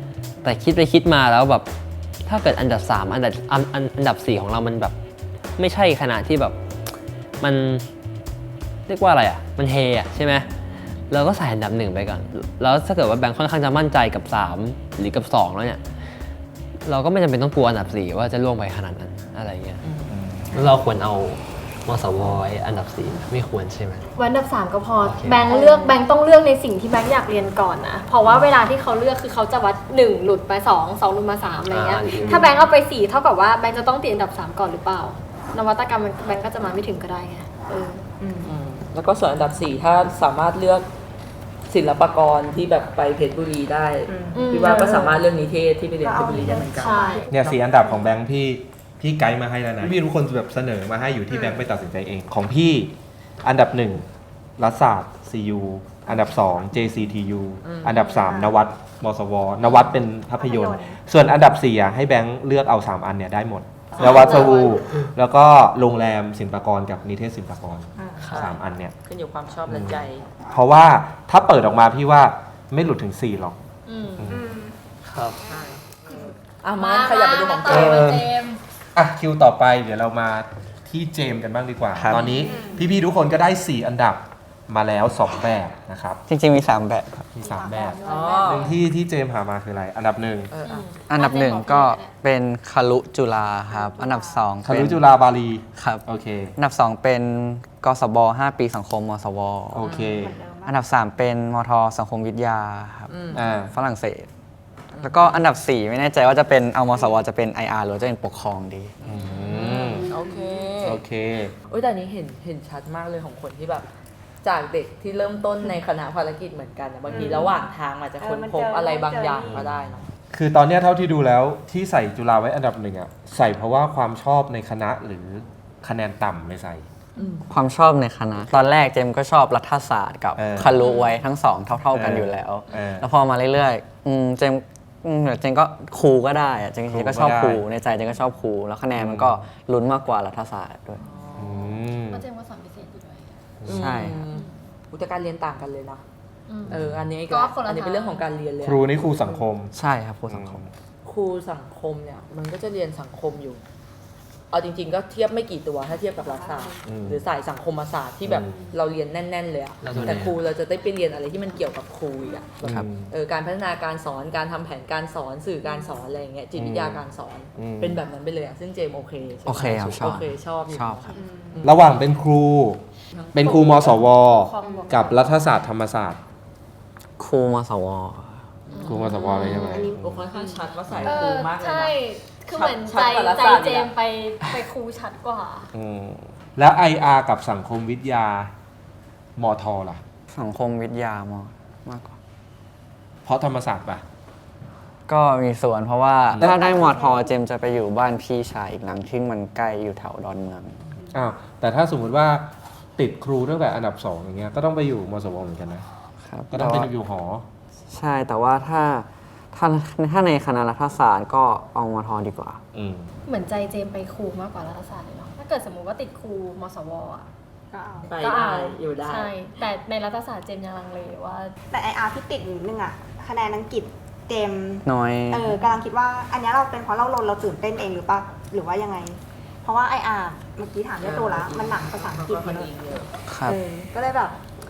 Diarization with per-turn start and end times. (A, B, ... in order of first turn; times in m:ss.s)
0:00.4-0:01.7 A
0:02.2-0:04.9 A
0:05.6-0:06.6 A
0:07.4-0:07.9 A
0:08.9-0:10.5 A
0:11.1-0:15.8 A
0:16.8-0:19.8 A
0:19.8-0:20.8 B
0:20.1-0:20.6 C
0:20.5-0:24.0 A
0:24.2-0:38.0 D
0:25.0-0:25.5 A
0:28.2-0:28.5 B
0:31.7-0:32.6 A
0:38.2-0:38.5 E
0:38.4-0:40.9 B
0:41.7-0:47.6 B
0:44.1-0:45.0 E
0:44.3-0:45.2 D
0:46.0-0:48.1 E
0:46.8-0:47.2 D
0:47.3-0:54.1 C
0:51.3-0:51.7 E
0:54.6-1:08.9 C
0:57.6-0:58.0 B
0:58.0-0:58.6 E
0:59.6-1:01.0 E
1:04.0-1:04.8 E
1:04.0-1:04.7 D
1:08.0-1:08.4 E
1:08.2-1:10.3 B
1:09.7-1:13.6 C
1:13.8-1:14.4 D
1:14.3-1:14.7 E
1:15.0-1:15.4 A
1:15.4-1:15.8 B
1:16.5-1:18.2 B
1:16.8-1:18.6 D
1:17.7-1:18.3 C
1:18.9-1:26.2 C
1:22.0-1:22.4 F
1:22.1-1:22.8 D
1:22.4-1:22.9 E
1:26.3-1:27.3 F
1:27.4-1:30.5 C
1:27.4-1:28.8 E
1:27.5-1:28.7 D
1:28.0-1:28.7 B
1:30.5-1:30.9 B
1:30.6-1:32.1 D
1:31.1-1:35.0 F
1:34.6-1:36.5 C
1:35.8-1:36.0 F
1:36.6-1:39.9 F
1:39.7-1:40.4 C
1:39.8-1:40.2 B
1:40.0-1:40.8 E
1:40.6-1:44.3 F
1:43.1-1:43.4 B
1:43.3-1:43.7 C
1:44.9-1:45.5 B
1:45.0-1:48.9 F
1:49.0-1:51.0 B
1:49.0-1:50.1 C
1:50.8-1:51.5 C
1:51.7-1:53.9 B
1:54.4-2:00.1 B
1:57.1-1:57.6 E
1:58.2-1:59.6 E
1:59.5-2:06.8 C
2:07.2-2:07.4 B
2:07.5-2:21.0 F
2:10.4-2:10.8 C
2:10.8-2:11.1 D
2:11.9-2:13.1 C
2:16.9-2:17.6 C
2:19.0-2:19.4 C
2:21.0-2:21.8 B
2:21.4-2:22.2 C
2:22.1-2:23.3 D
2:23.6-2:24.0 C
2:23.7-2:26.0 B
2:23.7-2:24.2 F
2:24.3-2:24.6 D
2:26.5-2:28.3 D
2:26.7-2:27.1 C
2:26.7-2:29.4 B
2:28.6-2:29.7 C
2:29.7-2:30.6 F
2:30.3-2:30.7 C
2:31.0-2:33.6 B
2:34.5-2:52.0 B
2:36.8-2:37.2 C
2:38.3-2:38.7 C
2:39.8-2:40.4 A
2:39.9-2:40.2 C
2:42.6-2:42.9 F
2:42.7-2:43.1 C
2:46.6-2:47.0 C
2:47.6-2:48.0 C
2:49.4-2:51.1 F
2:51.1-2:51.6 E
2:51.6-2:52.8 C
2:53.1-2:53.6 B
2:53.3-2:56.2 C
2:53.4-2:55.2 D
2:54.6-2:55.0 E
2:57.2-2:58.4 F
2:58.7-3:03.9 B
2:58.8-3:05.7 D
2:58.8-3:00.2 C
2:59.6-3:00.0 E
3:05.7-3:08.5 C
3:09.4-3:10.0 C
3:10.3-3:12.2 F
3:13.2-3:14.0 C
3:15.1-3:20.8 F
3:16.3-3:16.6 C
3:16.4-3:17.3 E
3:21.1-3:25.8 C
3:26.2-3:26.9 F
3:26.5-3:27.4 C
3:27.9-3:32.6 F
3:32.7-3:33.1 C
3:33.2-3:37.3 D
3:37.7-3:38.1 E
3:38.1-3:39.3 B
3:38.2-3:41.5 D
3:41.7-3:52.8 E
3:44.8-3:45.6 F
3:51.0-3:53.1 B
3:53.3-3:53.6 F
3:53.4-3:54.4 E